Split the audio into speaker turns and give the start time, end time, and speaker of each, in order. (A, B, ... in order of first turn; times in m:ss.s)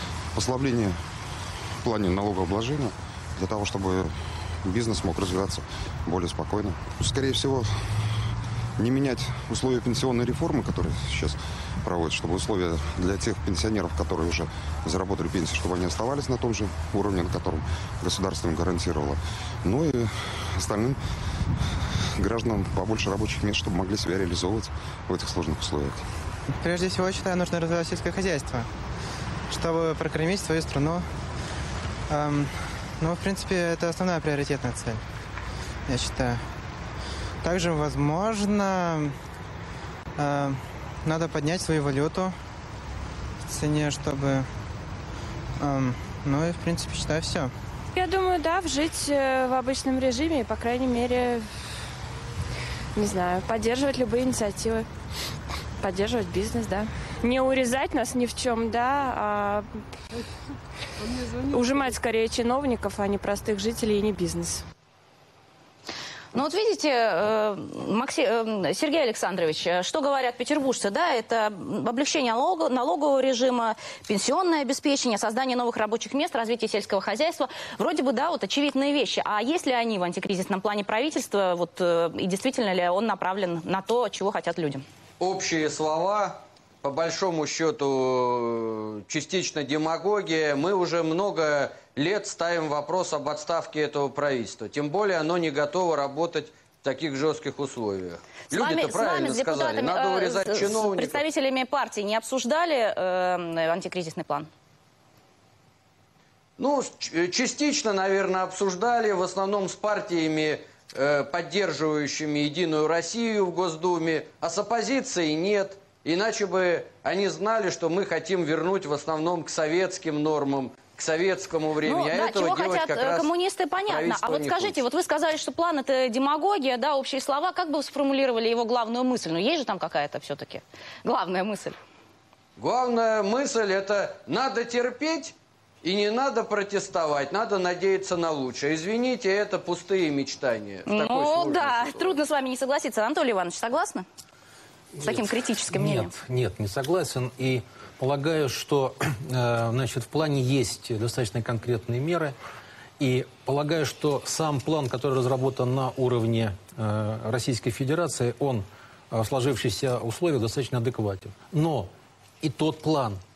0:00.3-0:01.0 A
0:01.8-0:08.2 A
0:08.8-0:21.0 A
0:22.2-0:26.1 A
0:26.5-0:28.7 B
0:29.5-0:31.0 B
0:32.1-0:35.0 B
0:35.9-0:36.4 B
0:37.4-0:39.1 B
0:40.2-0:42.4 B
0:43.5-0:44.5 B
0:45.6-0:47.5 B
0:47.9-0:51.5 C
0:53.0-0:54.9 C
0:55.8-0:59.7 C
1:01.1-1:04.6 C
1:06.3-1:24.8 D
1:25.2-1:41.2 E
1:38.5-1:44.5 D
1:46.6-2:03.3 E
2:01.8-2:11.8 D
2:03.9-2:04.8 E
2:12.6-2:22.2 E
2:20.9-2:24.0 D
2:25.0-2:32.4 F
2:25.0-2:26.1 D
2:33.0-2:41.9 F
2:42.4-2:43.2 F